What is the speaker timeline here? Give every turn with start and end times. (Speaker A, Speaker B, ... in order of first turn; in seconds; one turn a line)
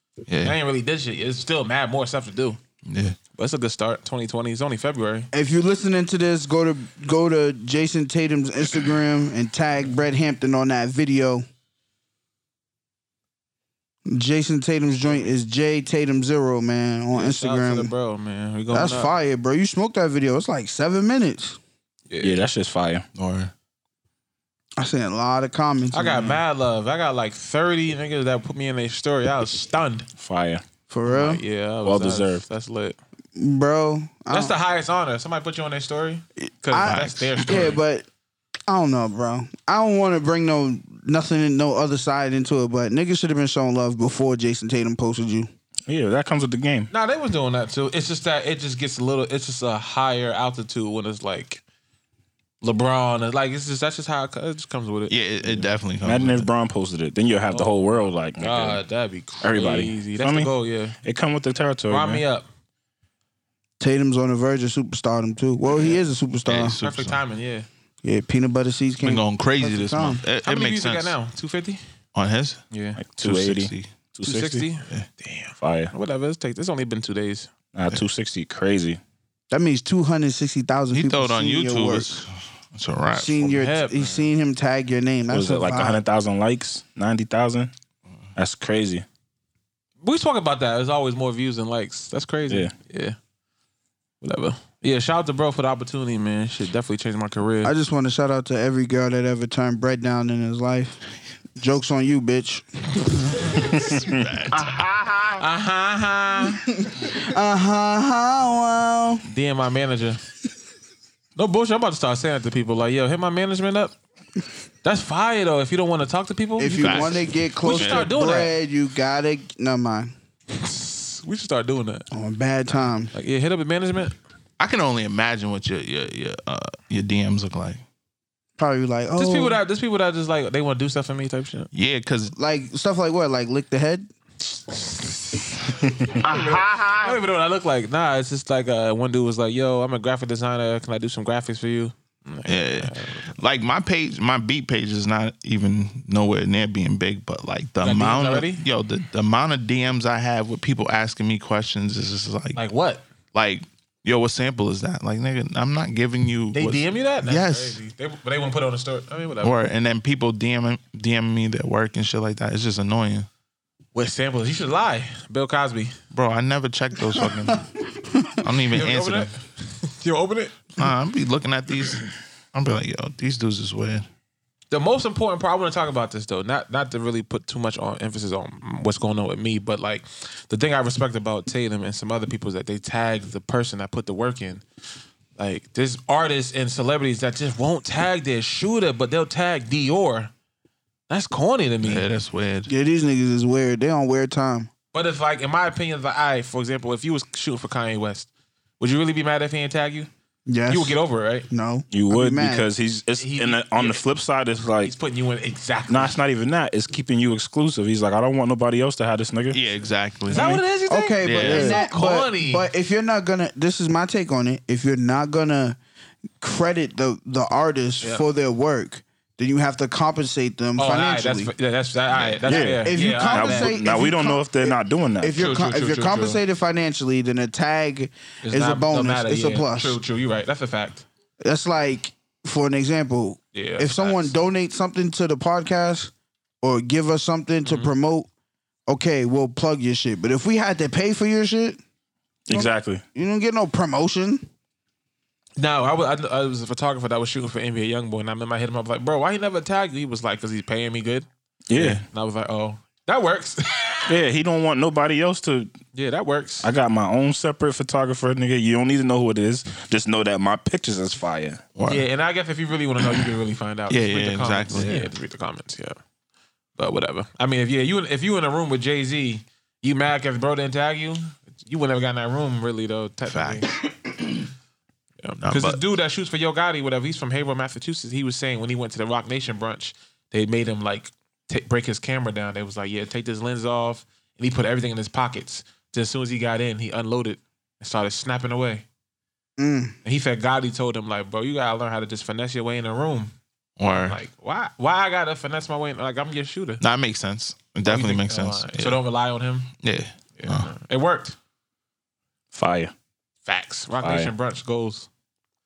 Speaker A: 0.3-0.6
Speaker B: 0.4-2.6
Speaker A: 2.9-3.2
Speaker B: 3.4-5.3
Speaker C: 5.3-11.4
Speaker C: 14.1-17.9
Speaker B: 17.1-19.1
Speaker C: 18.7-21.6
Speaker B: 22.1-22.4
Speaker D: 22.2-23.1
Speaker A: 23.2-23.5
Speaker C: 24.8-26.4
Speaker B: 25.9-30.1
Speaker D: 30.2-30.6
Speaker C: 30.9-31.4
Speaker B: 31.1-33.0
Speaker D: 31.8-32.4
Speaker C: 33.4-34.6
Speaker B: 34.3-37.8
Speaker C: 36.4-38.1
Speaker A: 36.8-37.7
Speaker C: 38.7-45.5
Speaker D: 45.9-46.9
Speaker B: 46.9-51.6
Speaker B: 52.6-55.6
Speaker A: 55.1-56.5
Speaker D: 56.0-58.8
Speaker B: 57.5-61.0
Speaker D: 59.4-62.2
Speaker B: 61.9-62.5
Speaker C: 63.8-66.8
Speaker A: 66.5-67.2
Speaker B: 66.8-67.7
Speaker C: 68.0-70.2
Speaker A: 69.0-71.2
Speaker B: 70.4-71.8
Speaker A: 72.2-72.6
Speaker B: 72.7-73.0
Speaker D: 73.0-74.7
Speaker A: 73.2-73.9
Speaker B: 74.2-77.5
Speaker D: 75.6-75.9
Speaker D: 77.7-79.0
Speaker C: 79.5-82.2
Speaker A: 80.9-83.4
Speaker C: 83.1-86.0
Speaker B: 83.4-84.3
Speaker D: 85.3-87.7
Speaker D: 88.4-89.0
Speaker B: 90.0-93.2
Speaker B: 94.2-97.7
Speaker C: 97.6-101.0
Speaker C: 101.6-103.4
Speaker D: 103.8-104.2
Speaker A: 104.0-104.8
Speaker B: 105.4-106.6
Speaker C: 106.7-109.2
Speaker B: 109.3-110.2
Speaker B: 111.4-114.0
Speaker B: 114.8-118.5
Speaker C: 116.6-120.1
Speaker A: 116.8-118.1
Speaker B: 120.5-122.1
Speaker C: 122.1-123.1
Speaker B: 123.1-124.2
Speaker A: 124.6-127.8
Speaker C: 128.6-129.6
Speaker B: 129.2-131.7
Speaker A: 131.7-132.3
Speaker C: 132.3-134.1
Speaker B: 134.7-143.3
Speaker A: 142.5-152.6
Speaker B: 147.8-148.6
Speaker B: 152.6-153.0
Speaker A: 153.3-157.8
Speaker B: 156.5-159.5
Speaker A: 159.4-163.3
Speaker B: 163.9-166.0
Speaker A: 166.1-167.7
Speaker A: 168.4-169.3
Speaker B: 168.7-170.6
Speaker A: 170.8-174.1
Speaker B: 174.7-184.6
Speaker B: 185.4-190.3
Speaker B: 191.1-192.1
Speaker A: 191.8-192.7
Speaker C: 192.7-194.7
Speaker B: 194.9-198.3
Speaker B: 198.8-200.1
Speaker C: 200.5-201.0
Speaker B: 200.7-201.5
Speaker C: 201.5-202.7
Speaker D: 201.9-204.9
Speaker B: 203.2-204.0
Speaker B: 204.8-206.2
Speaker D: 205.9-209.6
Speaker A: 209.5-210.6
Speaker B: 210.3-212.7
Speaker C: 210.4-215.8
Speaker A: 211.2-211.7
Speaker D: 211.4-211.8
Speaker C: 216.4-221.5
Speaker B: 220.8-223.8
Speaker D: 222.4-225.4
Speaker C: 222.6-230.0
Speaker B: 225.4-226.4
Speaker B: 228.4-231.1
Speaker C: 231.4-236.1
Speaker B: 233.5-234.3
Speaker C: 236.6-238.3
Speaker B: 237.7-237.9
Speaker C: 238.9-241.8
Speaker D: 242.5-243.0
Speaker C: 242.5-244.5
Speaker B: 245.6-254.1
Speaker D: 251.7-252.0
Speaker D: 254.1-255.7
Speaker B: 255.9-256.7
Speaker D: 256.6-261.6
Speaker A: 261.8-262.1
Speaker B: 261.9-266.0
Speaker A: 263.9-265.0
Speaker B: 266.8-273.7
Speaker A: 273.3-273.6
Speaker B: 275.2-288.9
Speaker A: 275.4-275.8
Speaker C: 289.6-289.9
Speaker B: 290.0-293.3
Speaker A: 293.8-294.2
Speaker B: 293.9-296.8
Speaker A: 296.8-299.0
Speaker B: 297.9-299.7
Speaker A: 299.8-300.7
Speaker B: 300.4-301.4
Speaker D: 302.5-302.9
Speaker B: 303.5-305.1
Speaker D: 304.0-304.3